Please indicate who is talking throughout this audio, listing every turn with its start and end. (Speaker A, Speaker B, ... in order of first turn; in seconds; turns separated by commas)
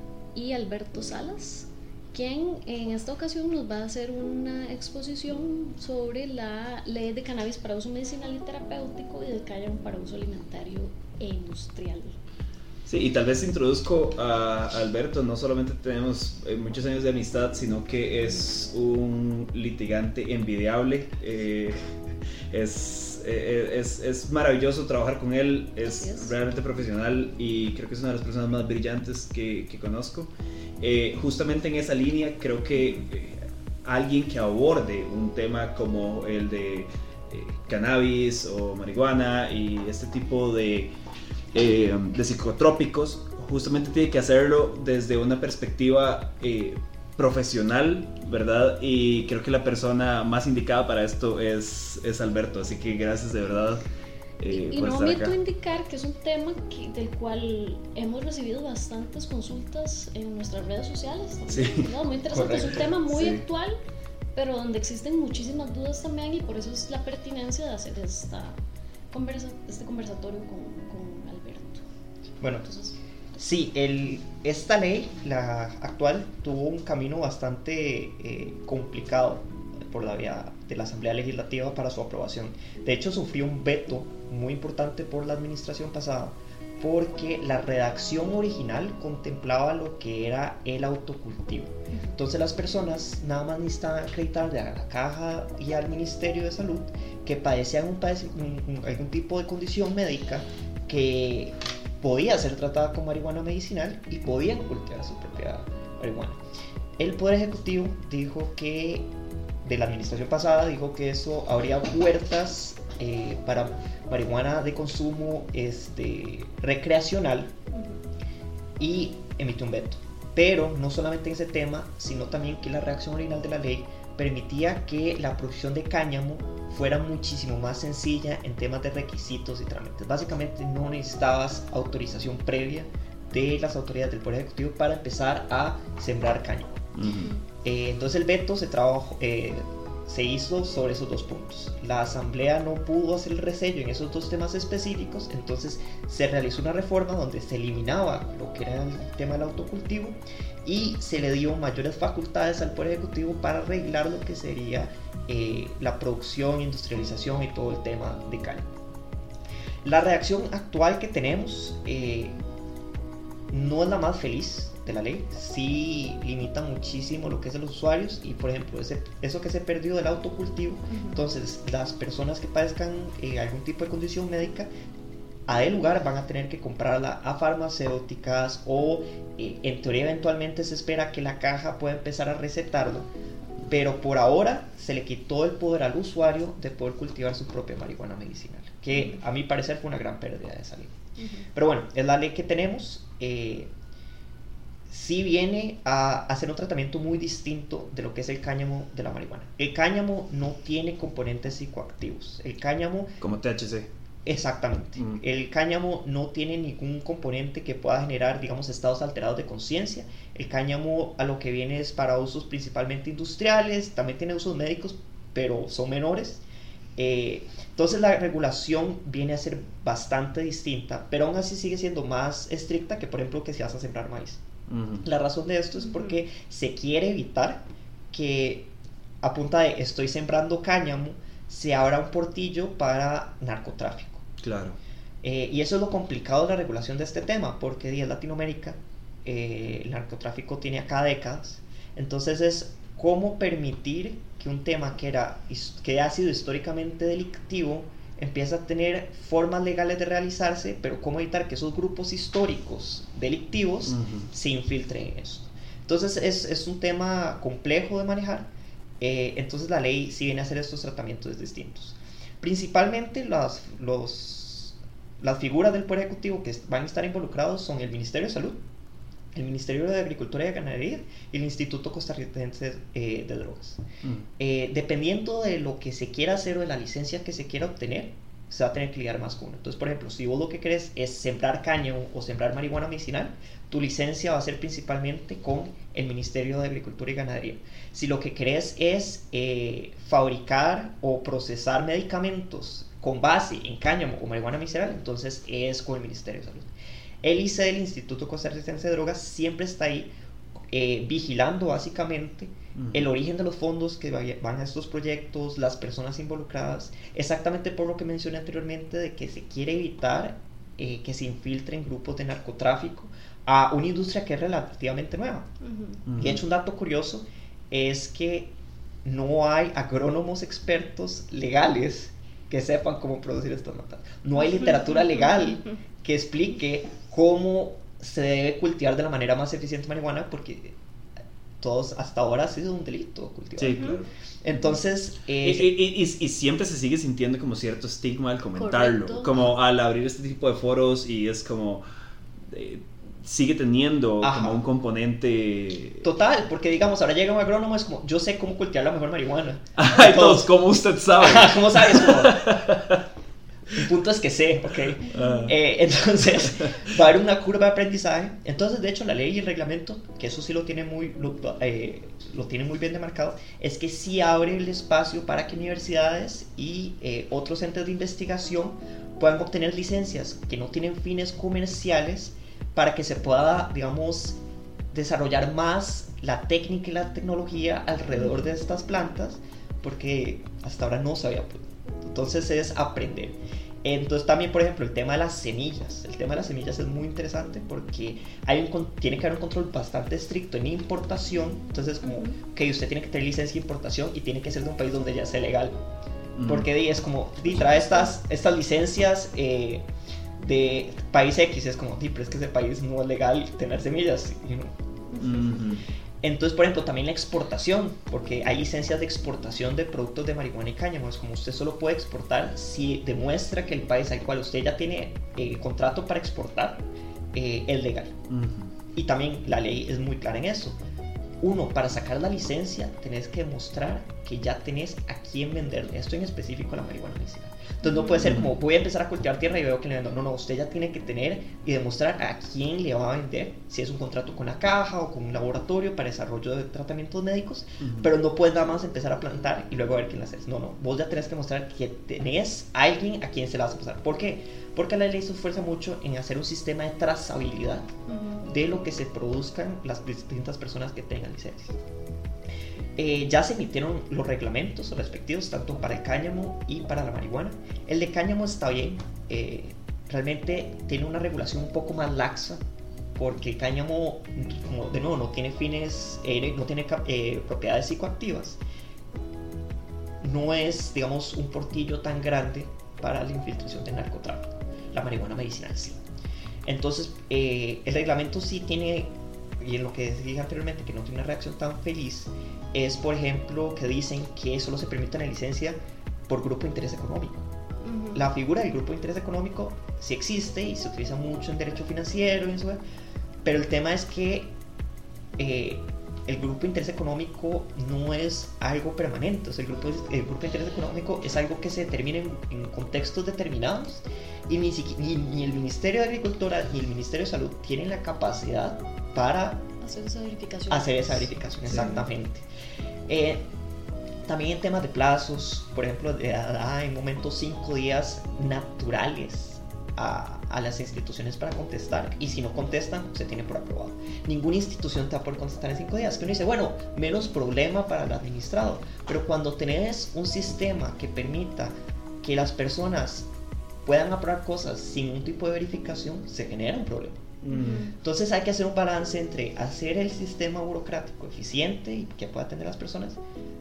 Speaker A: 0.3-12.2, Speaker B: 12.9-21.8, Speaker B: 22.5-40.9, Speaker A: 25.8-26.3, Speaker A: 32.7-33.0, Speaker B: 41.5-53.9, Speaker B: 54.4-55.4, Speaker A: 54.5-63.8, Speaker B: 61.5-61.9, Speaker C: 62.3-62.9, Speaker B: 63.1-63.4, Speaker A: 64.3-68.6, Speaker A: 69.1-71.8, Speaker C: 72.4-72.7, Speaker A: 72.5-73.0, Speaker C: 73.3-106.4, Speaker A: 91.9-92.2, Speaker C: 107.0-109.1, Speaker C: 109.6-117.5, Speaker A: 117.7-118.0, Speaker C: 118.8-136.8, Speaker B: 136.9-137.3, Speaker A: 137.1-137.4, Speaker C: 137.6-158.7, Speaker C: 159.8-162.4, Speaker C: 163.5-174.7, Speaker A: 170.9-171.2, Speaker C: 175.5-183.1, Speaker C: 183.7-190.9, Speaker A: 188.9-189.2, Speaker A: 191.2-191.5, Speaker C: 191.5-193.7, Speaker C: 194.9-203.2, Speaker B: 203.2-203.9, Speaker C: 204.2-216.4, Speaker B: 205.0-205.2, Speaker C: 217.0-224.4, Speaker B: 224.7-225.1, Speaker C: 225.0-228.7, Speaker A: 225.8-226.2, Speaker C: 229.2-234.2, Speaker B: 234.4-234.8, Speaker C: 235.2-268.6, Speaker B: 253.9-254.3, Speaker C: 269.3-273.8, Speaker C: 274.4-296.7, Speaker C: 297.2-300.1, Speaker C: 300.7-315.5, Speaker B: 302.8-303.1, Speaker A: 315.6-316.0, Speaker B: 316.1-316.4, Speaker C: 316.1-318.5, Speaker C: 319.0-330.8, Speaker A: 324.4-325.5, Speaker C: 331.6-335.8, Speaker B: 333.6-334.1, Speaker A: 333.7-334.0, Speaker A: 334.5-334.8, Speaker B: 335.4-341.8, Speaker A: 338.5-339.3, Speaker B: 342.5-346.0, Speaker C: 344.2-344.6, Speaker C: 346.0-350.5, Speaker B: 349.8-353.0, Speaker C: 351.1-352.4, Speaker C: 353.7-374.4, Speaker A: 355.1-355.5, Speaker B: 355.1-355.6, Speaker C: 374.9-395.8, Speaker A: 392.0-392.4, Speaker B: 396.4-396.7, Speaker C: 396.4-399.9, Speaker A: 397.6-398.1, Speaker C: 400.4-404.7, Speaker A: 405.1-405.6, Speaker B: 405.2-405.8, Speaker C: 406.2-418.1, Speaker B: 418.3-418.7, Speaker C: 418.9-420.8, Speaker C: 421.4-447.9, Speaker A: 427.8-428.3, Speaker B: 428.2-428.5, Speaker B: 437.8-438.1, Speaker A: 448.1-448.4, Speaker C: 448.4-451.8, Speaker C: 453.0-462.6, Speaker C: 463.1-468.6, Speaker C: 470.2-476.0, Speaker C: 476.6-485.8, Speaker C: 486.3-487.5, Speaker A: 487.8-488.3, Speaker C: 488.1-492.8, Speaker C: 493.4-494.5, Speaker C: 495.4-509.6, Speaker A: 509.8-511.9, Speaker C: 510.7-512.5, Speaker B: 511.7-512.0, Speaker C: 513.1-513.5, Speaker C: 514.2-533.3, Speaker C: 533.9-537.4, Speaker B: 537.4-537.9, Speaker A: 537.5-537.9, Speaker C: 538.0-543.2